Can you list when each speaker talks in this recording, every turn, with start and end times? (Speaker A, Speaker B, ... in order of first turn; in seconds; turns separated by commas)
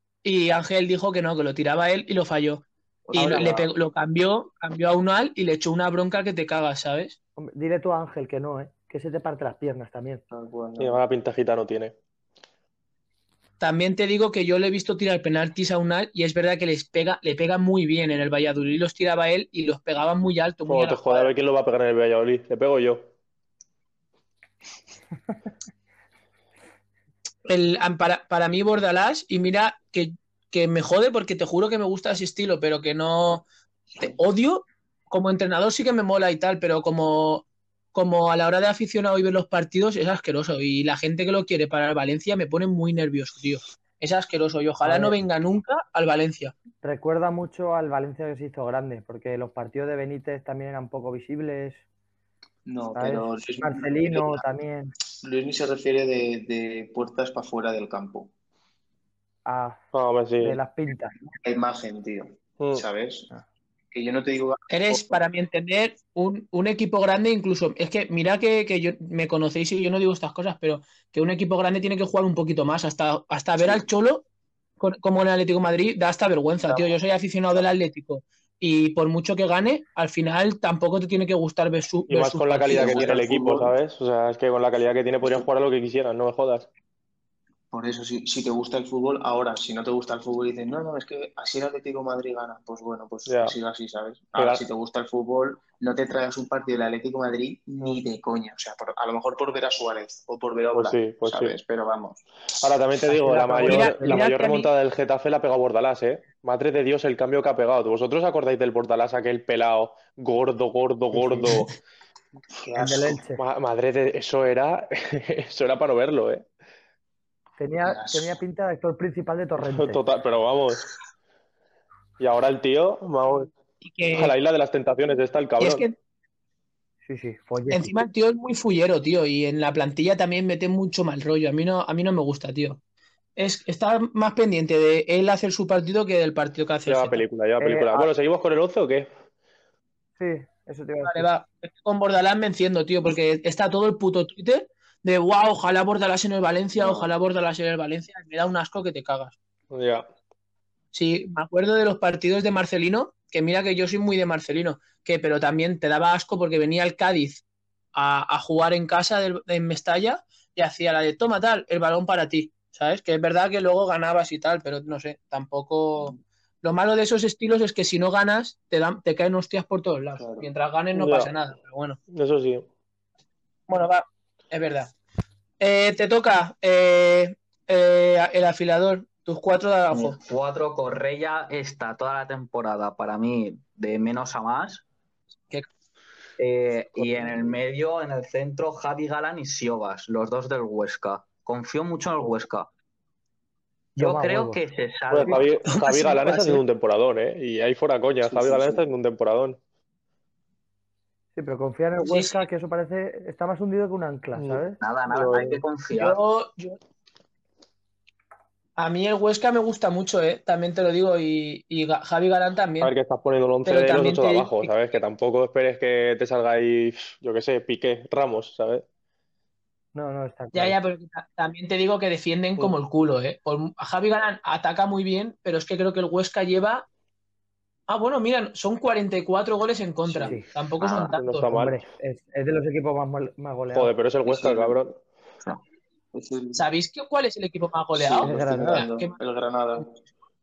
Speaker A: 0.2-7.1, Speaker B: 3.1-3.7, Speaker C: 3.1-3.5, Speaker C: 7.4-10.2, Speaker B: 10.3-11.0, Speaker D: 10.8-12.0, Speaker A: 13.6-21.3, Speaker D: 20.7-23.1, Speaker A: 27.5-33.4, Speaker A: 34.0-46.5, Speaker C: 44.8-45.2, Speaker C: 46.8-51.8, Speaker B: 52.6-54.4, Speaker C: 52.9-55.0, Speaker B: 55.2-58.3, Speaker C: 59.5-59.8, Speaker D: 59.9-60.6, Speaker C: 60.4-61.2, Speaker B: 61.4-63.3, Speaker B: 63.9-65.2, Speaker A: 64.7-74.2, Speaker B: 73.6-73.8, Speaker A: 74.8-83.2, Speaker B: 76.6-77.0, Speaker D: 82.1-86.7, Speaker B: 82.7-83.7, Speaker B: 87.7-102.2, Speaker D: 93.3-93.5, Speaker D: 94.4-94.6, Speaker D: 100.7-101.5, Speaker D: 102.6-111.7, Speaker C: 103.1-104.2, Speaker A: 103.6-104.7, Speaker C: 111.1-111.5, Speaker B: 112.5-113.2, Speaker C: 112.8-113.4, Speaker D: 113.4-116.5, Speaker C: 117.6-120.0, Speaker B: 117.8-118.4, Speaker D: 119.6-120.8, Speaker D: 122.2-123.5, Speaker A: 123.8-124.3, Speaker D: 124.1-125.8, Speaker A: 125.6-125.9, Speaker C: 127.0-128.0, Speaker A: 127.7-132.8, Speaker A: 133.4-137.2, Speaker D: 136.9-139.1, Speaker C: 137.6-138.1, Speaker C: 140.2-141.3, Speaker A: 141.0-149.4, Speaker B: 146.8-147.1, Speaker D: 149.7-150.1, Speaker A: 150.9-157.4, Speaker A: 157.9-172.0, Speaker B: 170.2-170.5, Speaker D: 170.9-171.3, Speaker D: 172.1-172.7, Speaker A: 173.7-174.9, Speaker A: 175.6-180.2, Speaker E: 179.9-184.8, Speaker E: 186.4-192.7, Speaker E: 194.0-195.6, Speaker C: 194.0-194.6, Speaker D: 195.1-199.6, Speaker A: 195.7-196.6, Speaker B: 198.2-198.8, Speaker C: 201.3-204.8, Speaker A: 202.0-202.4, Speaker D: 204.3-205.6, Speaker E: 204.8-206.2, Speaker A: 205.9-206.8, Speaker A: 208.8-212.9, Speaker D: 212.8-218.8, Speaker A: 213.6-214.7, Speaker C: 219.9-220.8, Speaker A: 220.5-226.9, Speaker A: 227.9-231.5, Speaker B: 230.1-230.4, Speaker D: 230.9-231.8, Speaker C: 231.4-233.9, Speaker D: 233.7-235.0, Speaker B: 234.2-234.8, Speaker B: 236.1-236.6, Speaker A: 236.5-239.2, Speaker B: 237.9-239.9, Speaker C: 238.2-238.9